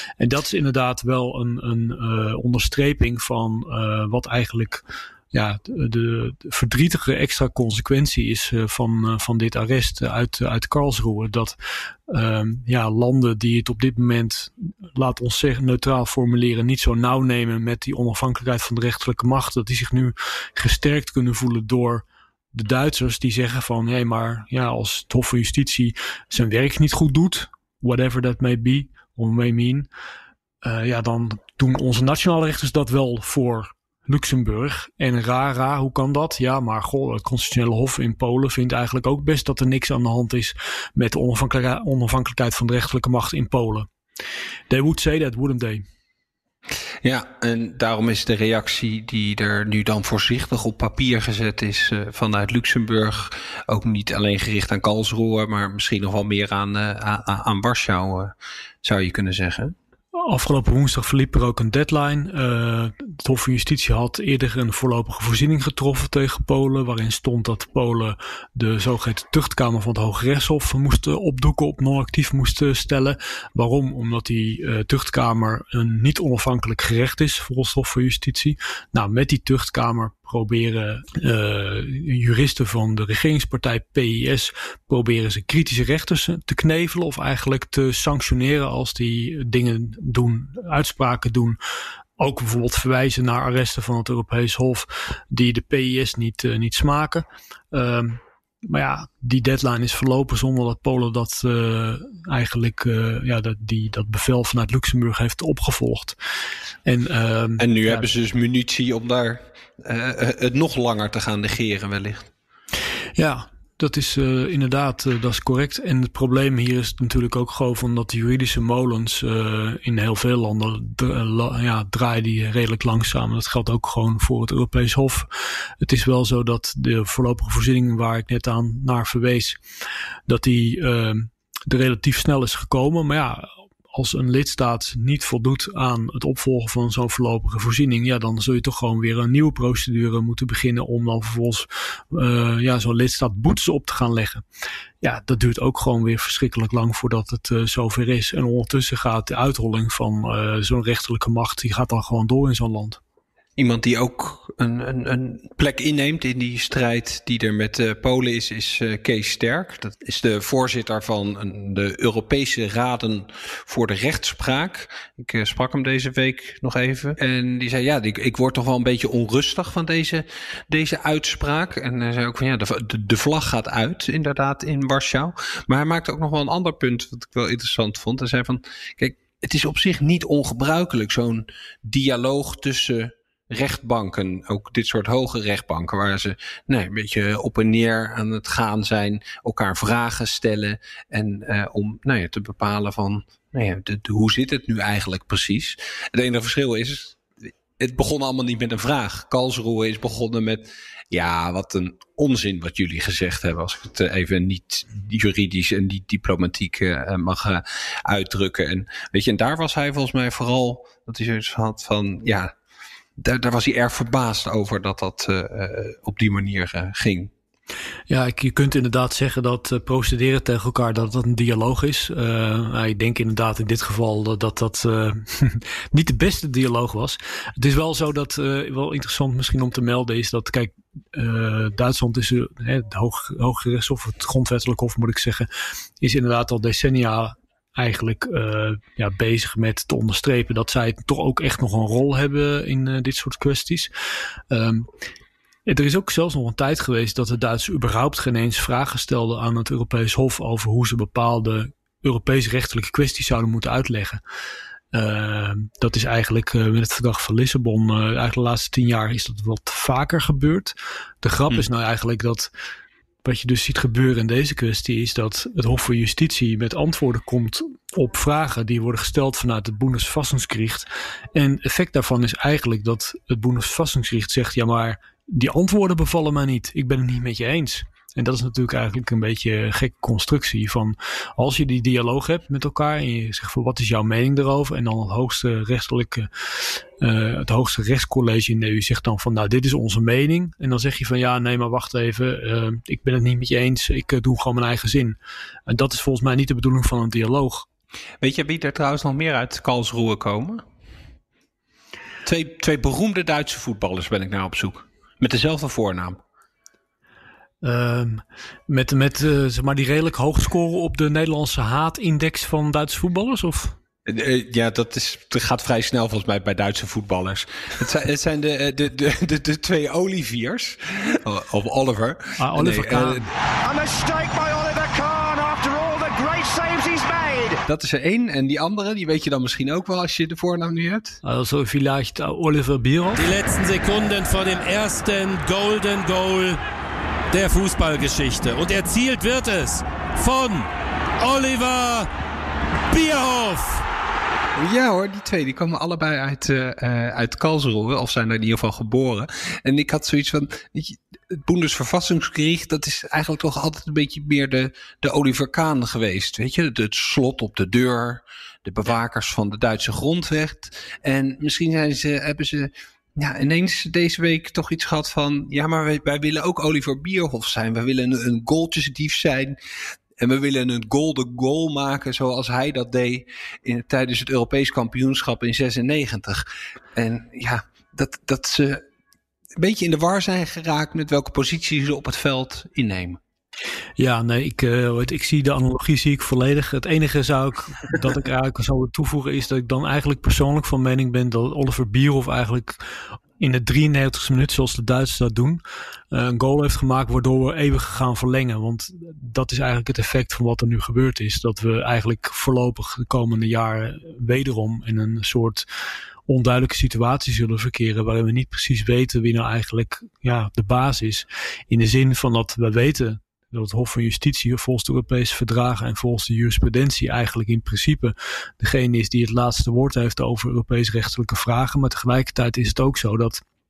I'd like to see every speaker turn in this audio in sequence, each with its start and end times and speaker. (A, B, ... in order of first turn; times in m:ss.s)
0:00.2-0:11.6 A
0:12.1-0:29.9 A
0:30.6-0:43.9 A
0:44.7-0:45.8 A
0:47.0-0:59.7 B
1:00.1-1:31.6 A
1:32.2-1:46.2 A
1:46.8-1:48.1 A
1:47.6-1:52.3 B
1:53.2-2:09.6 A
2:10.3-2:24.4 A
2:25.0-2:33.0 A
2:33.6-3:17.2 B
3:17.8-3:32.5 B
3:33.2-3:37.3 B
3:38.1-3:55.5 A
3:56.0-4:03.9 A
4:04.5-4:04.9 A
4:05.6-4:14.2 A
4:14.9-4:22.5 A
4:23.2-4:57.7 A
4:58.2-5:00.6 B
5:02.2-5:06.2 B
5:07.6-5:13.8 A
5:14.1-5:23.3 B
5:22.4-5:23.3 A
5:23.6-5:27.6 C
5:27.7-5:31.2 B
5:31.2-5:33.3 A
5:33.2-5:36.6 D
5:33.7-5:36.2 C
5:37.3-5:40.6 D
5:37.3-5:39.7 C
5:40.2-5:40.5 C
5:41.2-5:42.0 D
5:41.2-5:41.8 C
5:42.9-5:43.6 D
5:42.9-5:43.6 C
5:44.6-6:09.6 B
6:10.2-6:18.8 B
6:19.6-6:23.2 B
6:24.0-6:45.7 A
6:46.3-7:03.4 A